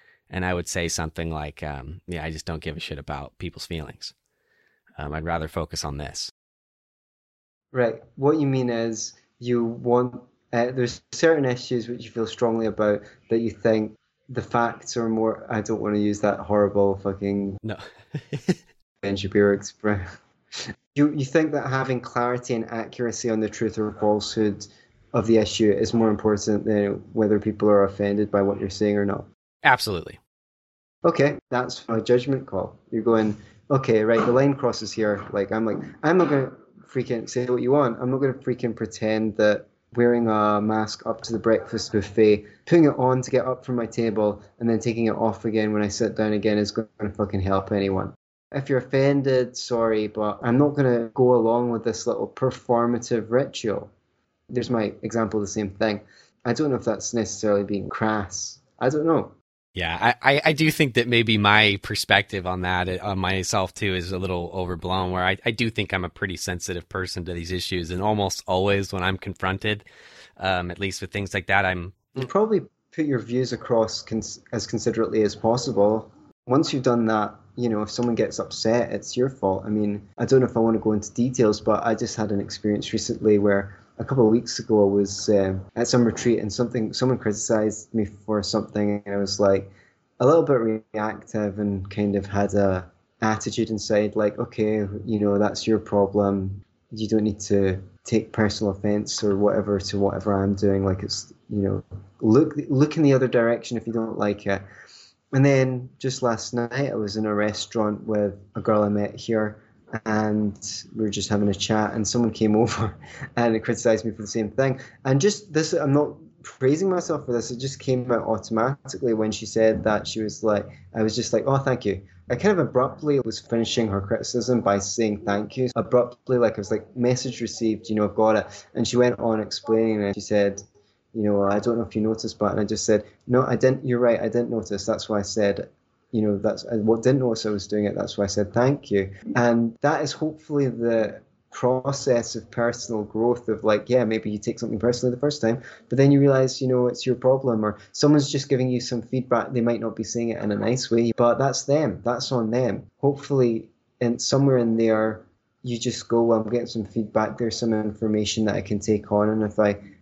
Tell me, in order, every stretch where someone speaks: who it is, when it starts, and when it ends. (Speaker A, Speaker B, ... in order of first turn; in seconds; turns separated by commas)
Speaker A: 0.3-4.1, Speaker A: 5.0-6.3, Speaker B: 7.7-17.6, Speaker A: 17.6-18.6, Speaker B: 19.0-20.0, Speaker B: 20.9-29.3, Speaker A: 29.6-30.2, Speaker B: 31.0-53.9, Speaker B: 54.5-59.3, Speaker A: 59.7-69.8, Speaker A: 70.4-72.2, Speaker B: 72.2-104.6, Speaker B: 105.3-159.8